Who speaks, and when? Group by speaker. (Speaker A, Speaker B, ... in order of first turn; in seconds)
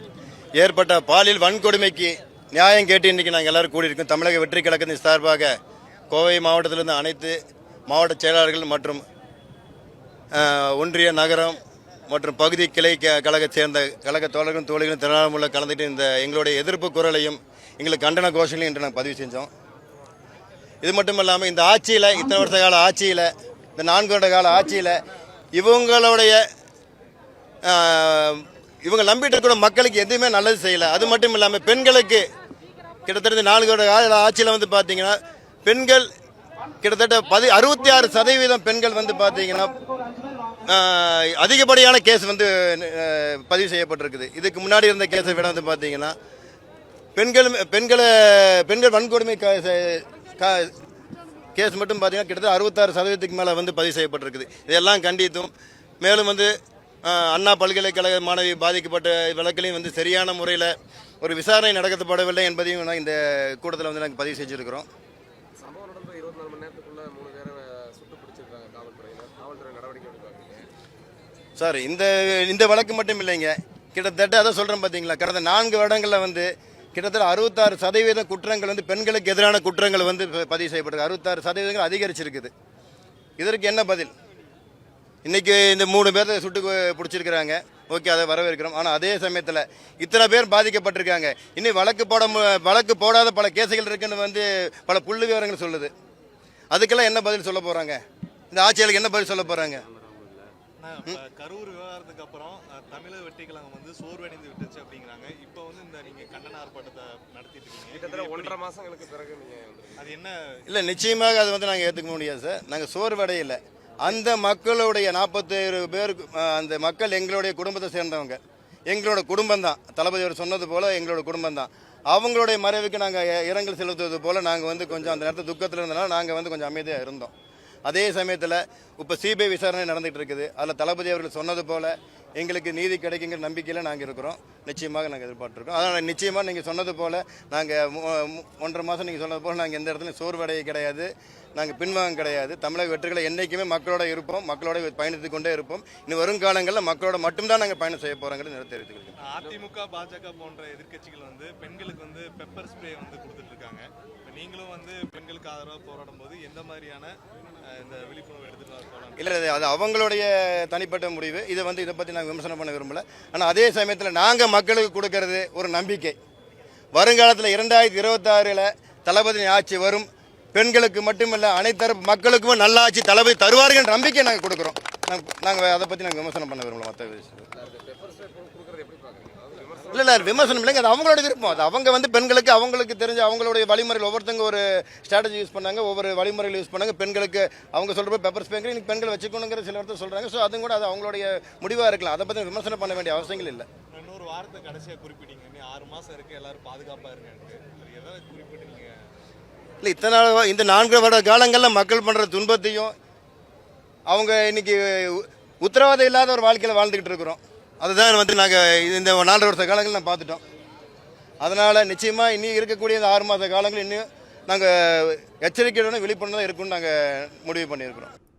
Speaker A: 0.6-5.5, 6.1-7.4, 7.9-9.0, 10.3-19.5, 20.8-25.0, 25.6-26.4, 27.7-32.2, 33.1-36.1, 36.8-39.7, 40.7-46.1, 47.2-50.7, 51.5-56.5, 57.0-64.9, 71.6-82.5, 83.4-84.1, 85.2-95.9, 96.7-98.0, 98.5-99.8, 110.7-127.3, 127.9-149.2, 159.2-166.2, 166.9-177.5, 179.9-193.7, 199.8-202.9, 204.1-210.4, 211.4-218.1
Speaker B: 65.6-70.7, 99.3-100.5, 107.9-110.0, 177.5-180.8
Speaker C: 100.8-108.6, 110.0-110.6, 149.2-159.4, 193.9-198.9